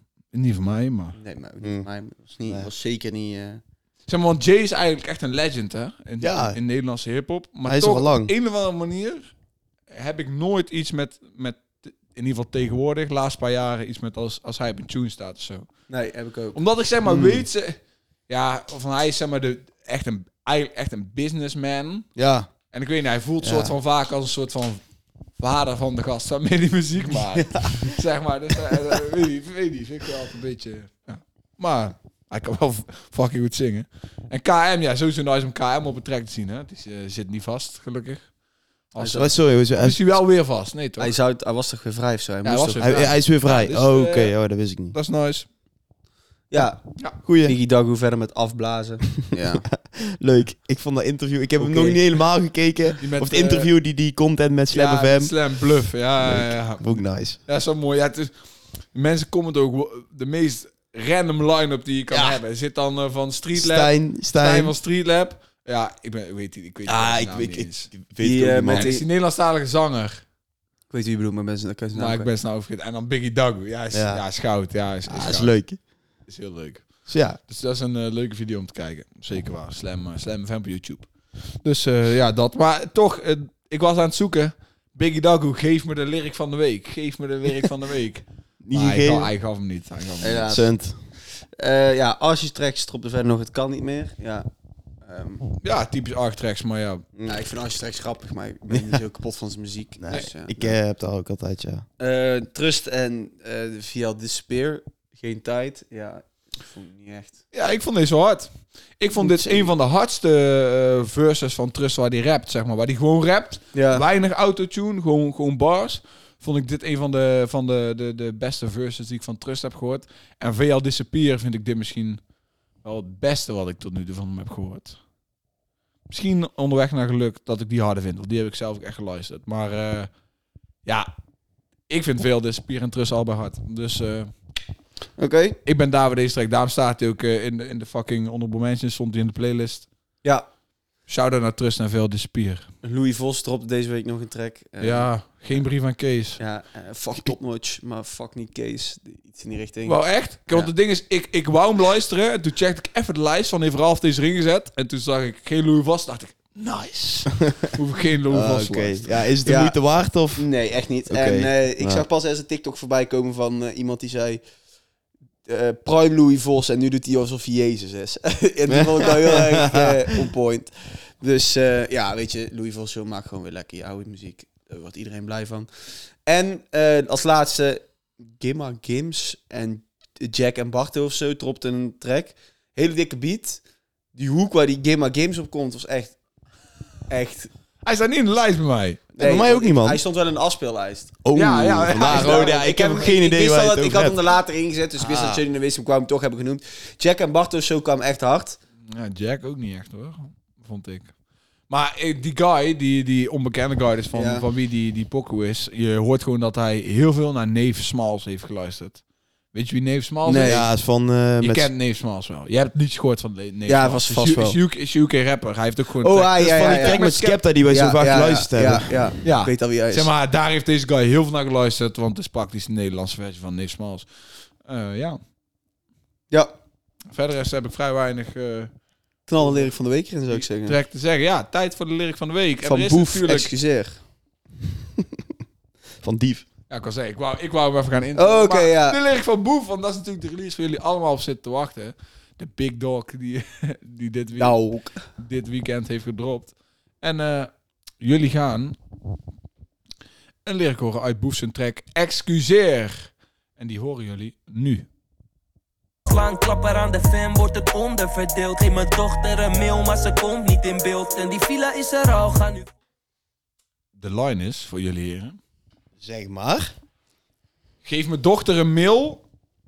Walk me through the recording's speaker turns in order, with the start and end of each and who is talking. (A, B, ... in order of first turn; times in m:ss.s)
0:00.3-0:01.2 A
0:01.2-0:03.6 B
0:04.1-0:09.3 A
0:06.2-0:06.6 C
0:07.6-0:08.3 C
0:09.9-0:15.7 A
0:15.9-0:16.6 B
0:16.5-0:17.8 A
0:17.0-0:17.4 C
0:18.3-0:22.1 A
0:22.2-0:22.5 C
0:22.7-0:24.8 A
0:23.4-0:23.7 C
0:25.4-0:38.2 A
0:38.9-0:41.1 A
0:39.0-0:39.3 B
0:39.1-0:40.0 C
0:41.0-0:43.0 B
0:42.4-0:44.3 A
0:42.8-0:44.9 C
0:44.9-0:45.4 A
0:46.5-0:46.8 B
0:47.2-0:47.5 C
0:47.4-0:49.6 B
0:49.6-0:55.3 C
0:51.6-0:52.0 B
0:53.0-0:53.7 A
0:54.7-0:58.3 A
0:56.2-0:57.4 C
0:58.9-1:07.9 A
1:02.1-1:02.4 C
1:03.5-1:04.7 C
1:06.8-1:08.9 C
1:08.2-1:09.0 B
1:08.7-1:10.2 A
1:10.9-1:12.3 B
1:11.9-1:15.5 A
1:13.9-1:14.2 C
1:15.1-1:15.8 C
1:16.3-1:16.9 A
1:17.1-1:17.4 C
1:17.5-1:21.1 A
1:21.6-1:30.5 A
1:28.6-1:29.3 C
1:30.2-1:30.7 B
1:30.5-1:31.0 C
1:31.6-1:34.5 B
1:35.0-1:35.4 B
1:35.6-1:37.0 A
1:37.2-1:40.7 B
1:40.0-1:41.8 C
1:42.0-1:47.4 B
1:47.5-2:02.2 A
1:49.2-1:49.7 B
1:53.7-1:54.0 B
2:02.8-2:05.0 A
2:06.1-2:10.1 A
2:11.9-2:14.3 A
2:15.2-2:15.6 B
2:15.6-2:19.9 A
2:21.1-2:22.7 A
2:22.8-2:25.6 B
2:24.8-2:26.4 A
2:26.4-2:30.0 B
2:29.8-2:39.2 A
2:38.3-2:40.5 C
2:39.4-2:39.8 B
2:40.4-2:44.4 B
2:41.1-2:42.0 C
2:45.4-2:55.7 B
2:48.7-2:50.0 C
2:56.2-3:03.6 B
3:04.1-3:06.1 B
3:07.1-3:07.5 B
3:07.8-3:09.1 A
3:09.2-3:11.1 B
3:09.2-3:10.0 C
3:11.2-3:14.2 C
3:11.3-3:13.1 A
3:12.0-3:18.6 B
3:15.0-3:15.4 C
3:18.9-3:21.1 A
3:21.7-3:29.0 A
3:24.1-3:24.4 B
3:29.5-3:30.6 A
3:30.2-3:30.6 B
3:30.4-3:31.7 C
3:31.4-3:37.4 A
3:33.7-3:34.6 B
3:36.0-3:37.0 B
3:36.4-3:38.9 C
3:37.7-3:40.1 B
3:39.2-3:44.1 A
3:44.6-3:45.2 A
3:47.1-3:48.7 A
3:49.3-3:50.8 B
3:49.4-3:49.7 A
3:50.3-3:53.5 A
3:52.6-3:54.0 B
3:56.0-3:56.4 C
3:56.7-4:04.6 A
3:58.2-3:59.0 B
4:04.4-4:05.0 B
4:05.2-4:08.8 A
4:10.4-4:14.8 A
4:16.1-4:22.7 D
4:24.0-4:25.4 A
4:26.0-4:26.7 C
4:27.8-4:29.2 A